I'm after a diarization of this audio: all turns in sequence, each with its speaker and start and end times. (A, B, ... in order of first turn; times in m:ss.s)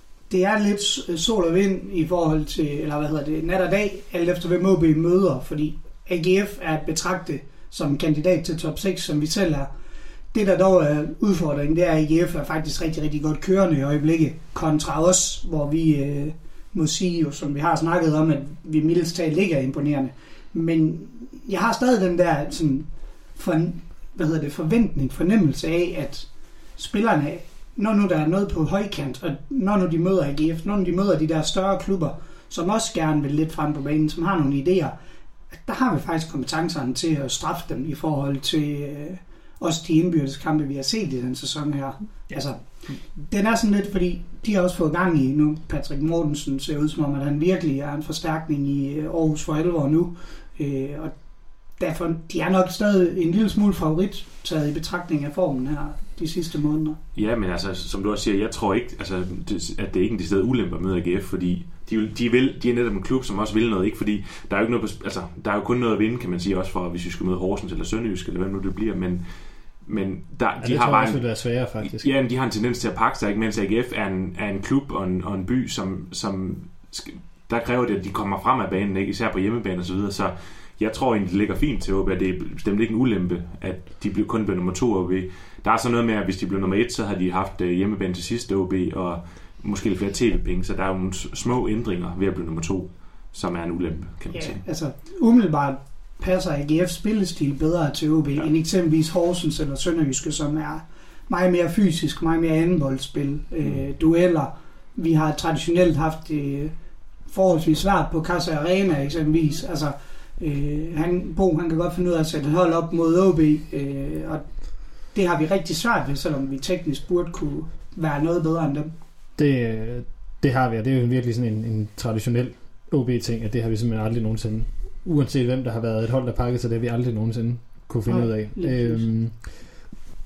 0:00.3-0:09.7 A
0:10.3-0:34.9 A
0:35.6-0:51.2 A
0:51.7-0:57.0 A
0:57.1-1:09.2 B
1:09.8-1:34.6 B
1:10.6-1:12.1 C
1:34.3-1:46.7 A
1:47.2-1:54.4 A
1:55.1-1:58.9 A
1:59.4-2:09.8 C
2:08.0-2:09.1 A